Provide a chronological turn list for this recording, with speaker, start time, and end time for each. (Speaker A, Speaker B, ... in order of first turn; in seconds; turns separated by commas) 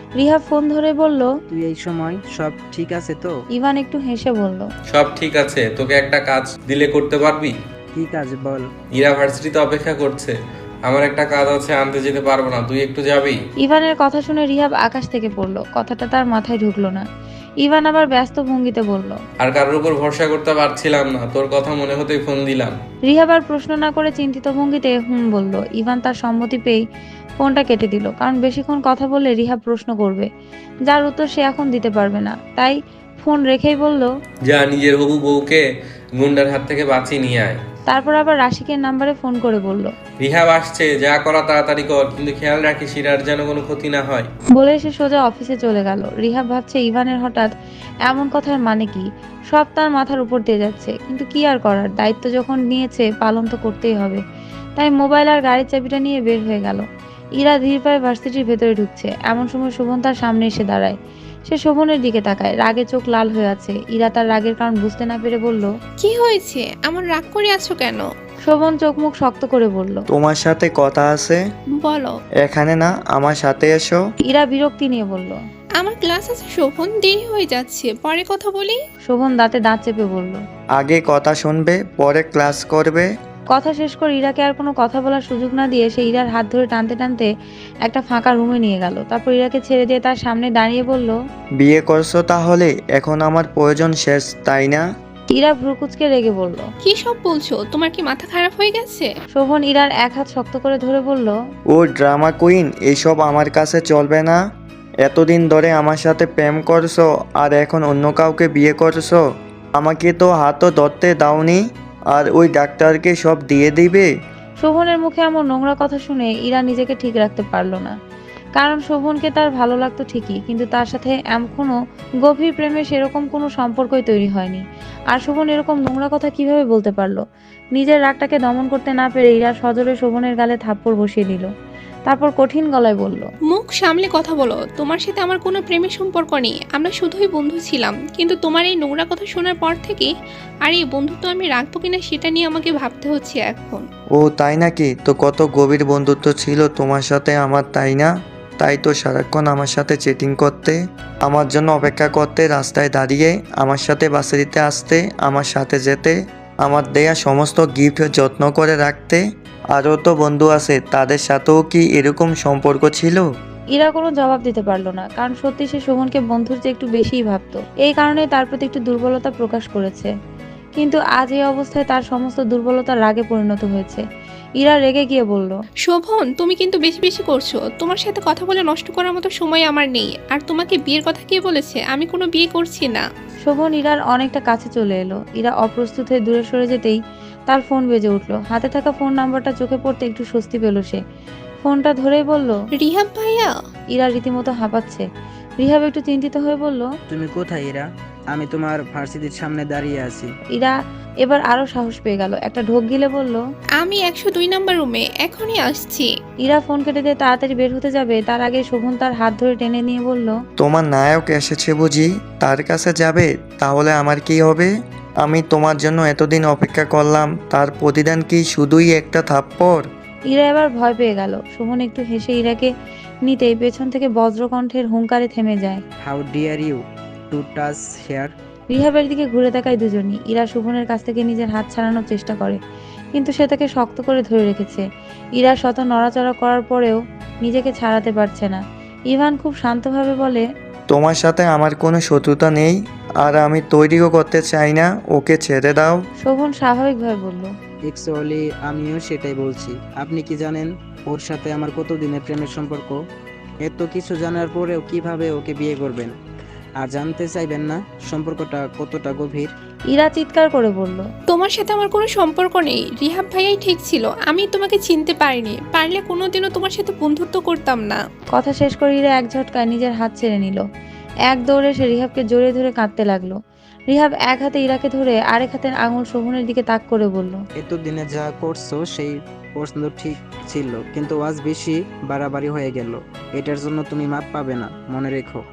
Speaker A: 0.2-1.3, Speaker B: 1.5-3.4, Speaker A: 3.5-4.7, Speaker C: 4.9-7.5, Speaker B: 7.9-8.7, Speaker C: 8.9-13.4, Speaker A: 13.6-17.1, Speaker A: 17.6-19.2, Speaker C: 19.4-22.8, Speaker A: 23.1-26.8, Speaker A: 27.4-30.3, Speaker A: 30.9-34.1, Speaker C: 34.5-35.6, Speaker C: 36.2-37.6, Speaker A: 37.9-39.9, Speaker C: 40.2-44.3, Speaker A: 44.6-47.5, Speaker A: 48.1-54.2, Speaker A: 54.8-56.9, Speaker A: 57.4-61.0, Speaker A: 61.5-65.7, Speaker D: 66.0-68.0, Speaker A: 68.5-70.0, Speaker E: 70.1-71.4, Speaker D: 71.8-72.2, Speaker E: 72.4-74.0, Speaker A: 74.3-75.4, Speaker D: 75.8-78.8, Speaker A: 79.1-80.4, Speaker E: 80.8-83.1, Speaker A: 83.5-87.3, Speaker A: 87.8-91.2, Speaker E: 91.6-94.8, Speaker A: 95.3-96.7, Speaker D: 96.8-99.1, Speaker A: 99.3-101.3, Speaker E: 101.7-104.4, Speaker E: 105.0-109.2, Speaker E: 109.8-114.1, Speaker A: 114.6-118.0, Speaker A: 118.6-127.2, Speaker A: 127.8-131.5, Speaker A: 132.1-133.3, Speaker D: 133.5-140.1, Speaker D: 140.7-143.9, Speaker E: 144.2-163.3, Speaker A: 163.7-170.1, Speaker A: 170.8-174.0, Speaker A: 174.6-175.6, Speaker D: 175.9-183.1, Speaker A: 183.5-191.0, Speaker A: 191.6-192.6, Speaker D: 192.8-193.5, Speaker A: 193.9-195.1, Speaker A: 195.6-196.9, Speaker B: 197.1-200.3, Speaker A: 200.6-203.4, Speaker D: 203.8-206.1, Speaker A: 206.4-210.4, Speaker E: 210.6-214.7, Speaker E: 215.2-219.9, Speaker A: 220.3-222.7, Speaker A: 223.3-225.8, Speaker B: 226.0-226.8, Speaker B: 227.3-228.3, Speaker A: 228.7-232.6, Speaker A: 233.2-234.8, Speaker A: 235.4-240.4, Speaker E: 240.9-246.0, Speaker A: 246.2-247.5, Speaker B: 247.9-253.0, Speaker B: 253.6-256.1, Speaker B: 256.8-259.5, Speaker A: 259.9-261.1, Speaker D: 261.3-268.0, Speaker A: 268.3-270.6, Speaker A: 271.3-273.4, Speaker A: 273.9-277.4, Speaker B: 277.6-285.4